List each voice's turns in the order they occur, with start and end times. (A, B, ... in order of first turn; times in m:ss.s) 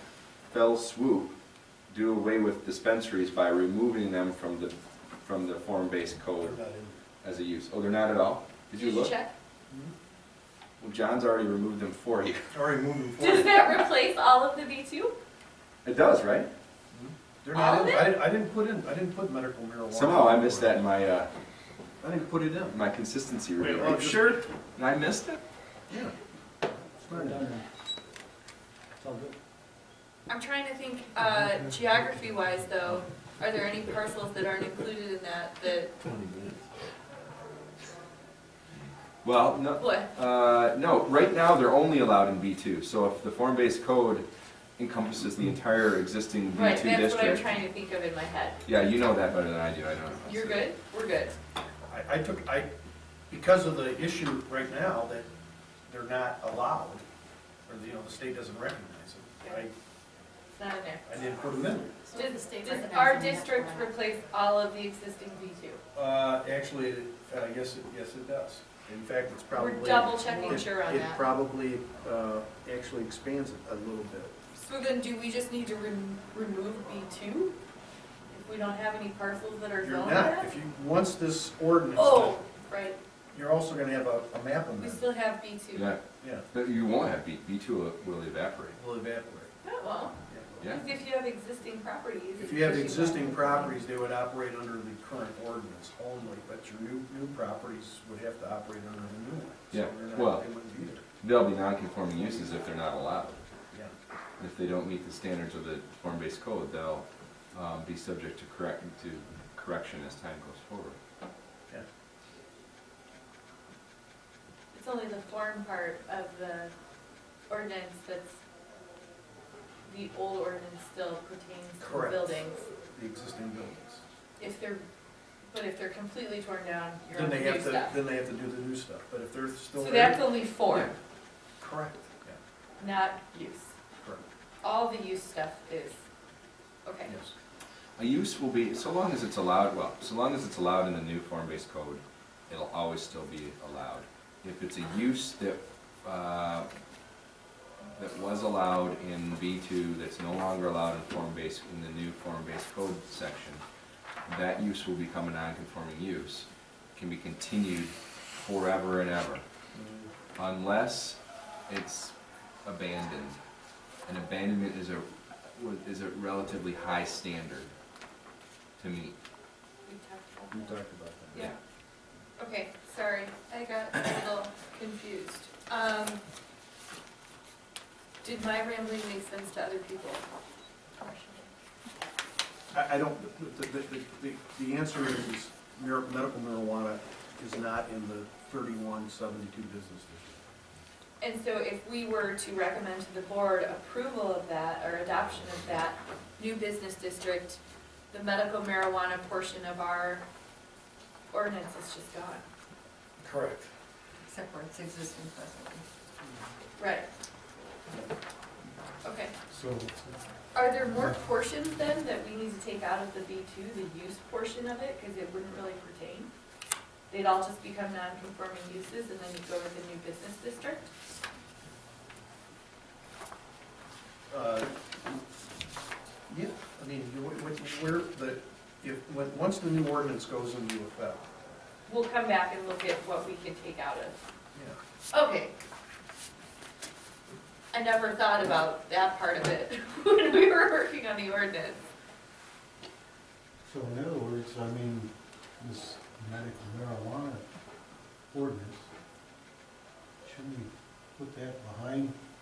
0:00.5-0:01.3 A
0:01.9-0:06.6 A
0:06.4-0:07.0 B
0:07.2-0:09.1 A
0:08.7-0:09.3 C
0:10.8-0:12.5 A
0:12.5-0:13.8 B
0:13.2-0:15.1 C
0:15.8-0:16.5 A
0:16.9-0:20.8 B
0:17.5-0:18.2 C
0:19.9-0:21.3 A
0:22.0-0:22.8 B
0:22.7-0:25.4 A
0:23.6-0:24.4 B
0:25.9-0:26.1 B
0:27.0-0:27.4 B
0:27.1-0:27.6 D
0:29.0-0:29.3 D
0:30.3-0:35.9 C
0:39.2-0:44.2 A
0:39.8-0:40.1 C
0:44.8-0:47.6 A
0:46.5-0:48.6 C
0:48.6-0:50.6 A
0:50.2-0:51.4 C
0:51.9-0:52.7 B
0:53.3-0:55.3 B
0:55.9-0:57.0 B
0:57.7-0:59.7 B
1:00.5-1:01.1 C
1:01.0-1:02.0 B
1:02.0-1:03.9 E
1:02.1-1:05.8 C
1:05.9-1:14.3 B
1:09.5-1:11.2 C
1:14.5-1:17.6 C
1:18.3-1:20.5 C
1:19.8-1:22.4 B
1:21.9-1:23.0 C
1:23.3-1:25.0 B
1:24.8-1:26.0 C
1:25.7-1:26.0 A
1:26.2-1:26.4 B
1:26.5-1:28.8 A
1:28.7-1:29.5 B
1:29.6-1:33.8 C
1:30.3-1:30.6 B
1:32.4-1:41.0 B
1:39.7-1:40.4 A
1:41.2-1:43.4 A
1:44.4-1:51.0 A
1:54.7-1:56.7 C
1:57.5-1:58.4 C
1:59.8-2:02.6 C
2:01.8-2:04.0 B
2:04.4-2:04.8 C
2:05.5-2:08.0 C
2:07.1-2:10.9 B
2:09.7-2:10.9 C
2:11.6-2:12.4 B
2:12.8-2:13.7 C
2:14.6-2:16.0 C
2:16.8-2:17.1 C
2:17.0-2:17.3 B
2:18.0-2:26.7 A
2:27.9-2:33.6 A
2:34.3-2:39.4 A
2:39.7-2:40.1 B
2:40.4-2:43.4 A
2:44.0-2:47.7 A
2:48.8-2:49.2 A
2:49.8-2:50.8 C
2:50.5-2:51.4 B
2:52.4-2:56.2 C
2:58.2-3:00.2 C
3:01.0-3:01.5 C
3:02.7-3:10.3 B
3:11.2-3:17.6 C
3:18.1-3:20.2 C
3:21.3-3:22.4 C
3:23.2-3:23.7 B
3:24.2-3:25.8 E
3:26.8-3:27.1 C
3:29.0-3:29.3 C
3:29.5-3:30.3 D
3:30.5-3:36.3 C
3:30.9-3:31.2 D
3:37.1-3:40.8 C
3:44.3-3:45.2 B
3:46.3-3:51.2 B
3:51.9-3:54.2 C
3:55.1-3:55.5 C
3:57.7-4:01.8 C
4:03.6-4:07.4 D
4:08.3-4:08.9 D
4:10.2-4:12.1 D